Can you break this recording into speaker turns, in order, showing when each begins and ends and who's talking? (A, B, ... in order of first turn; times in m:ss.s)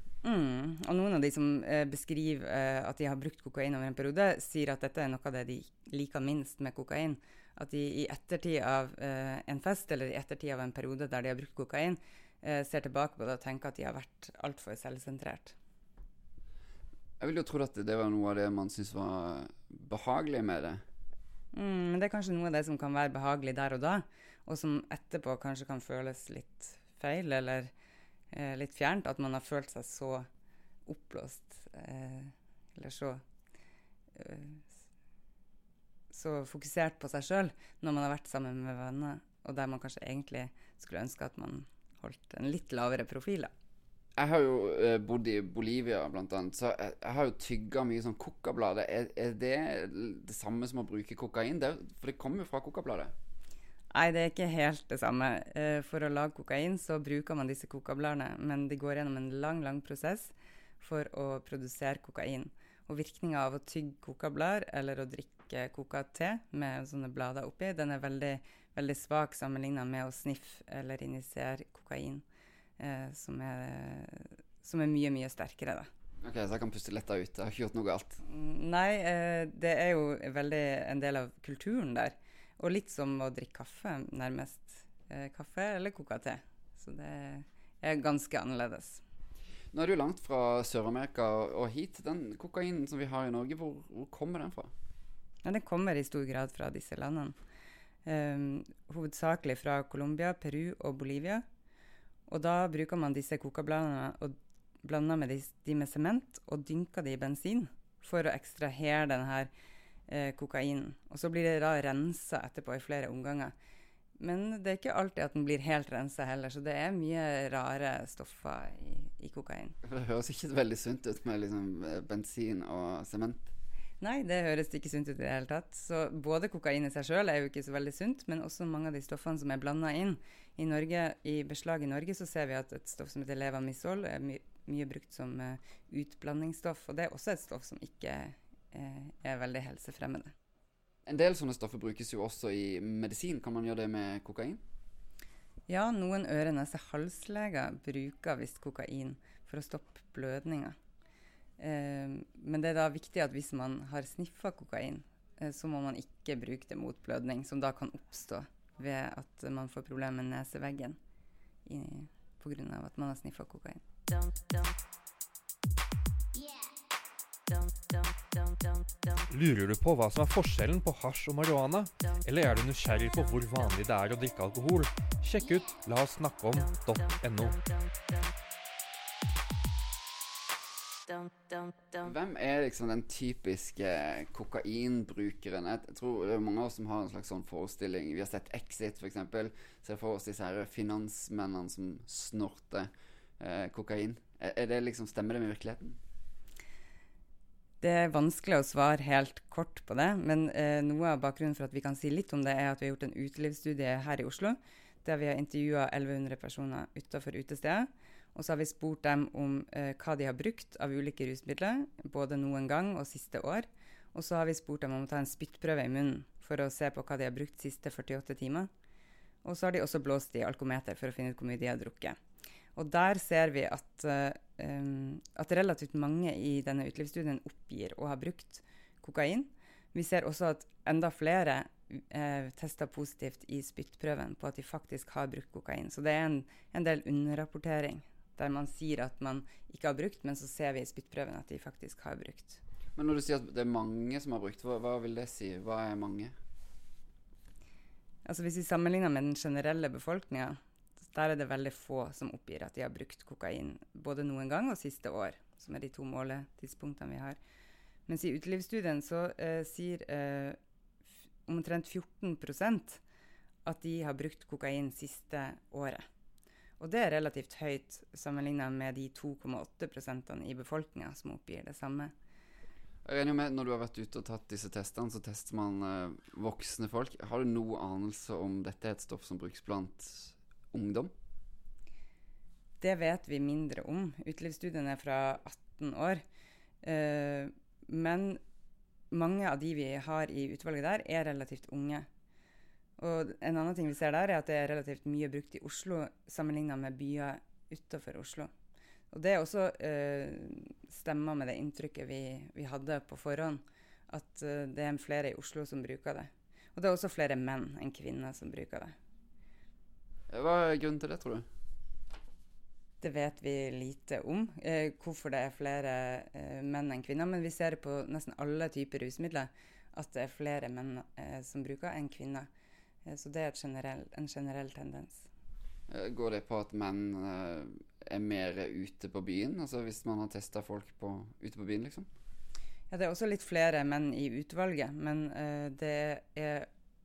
0:00.2-0:15.6 A
0:17.2-0:20.8 B
0:21.5-0:27.7 A
0:28.3-0:30.3 A
0:30.9-0:33.2 A
0:34.2-0:34.7 A
0:36.1-0:43.5 A
0:44.2-0:53.1 B
0:53.9-1:12.2 A
1:12.8-1:15.9 A
1:16.2-1:18.2 B
1:18.2-1:29.0 A
1:29.7-1:34.7 B
1:35.4-1:37.4 A
1:38.0-1:41.4 A
1:42.3-1:49.5 A
1:50.1-1:53.5 A
1:54.2-1:59.8 A
1:59.8-2:03.5 B
2:04.0-2:20.3 A
2:21.1-2:24.6 B
2:25.7-2:30.8 A
2:31.6-2:41.0 A
2:41.7-2:43.8 A
2:49.3-2:57.6 C
3:02.0-3:16.0 B
3:17.8-3:38.7 A
3:39.4-3:42.2 A
3:42.8-4:02.6 A
4:03.0-4:06.3 B
4:08.3-4:17.4 A
4:18.1-4:20.6 A
4:21.5-4:23.0 A
4:23.6-4:26.0 A
4:26.8-4:32.1 A
4:33.0-4:41.1 B
4:42.8-4:46.2 A
4:46.8-4:48.4 A
4:49.1-4:52.1 A
4:53.0-4:58.5 A
4:59.1-5:08.9 A
5:10.3-5:11.4 B
5:13.0-5:22.5 A
5:23.1-5:25.3 A
5:25.9-5:32.1 B
5:32.9-5:36.7 A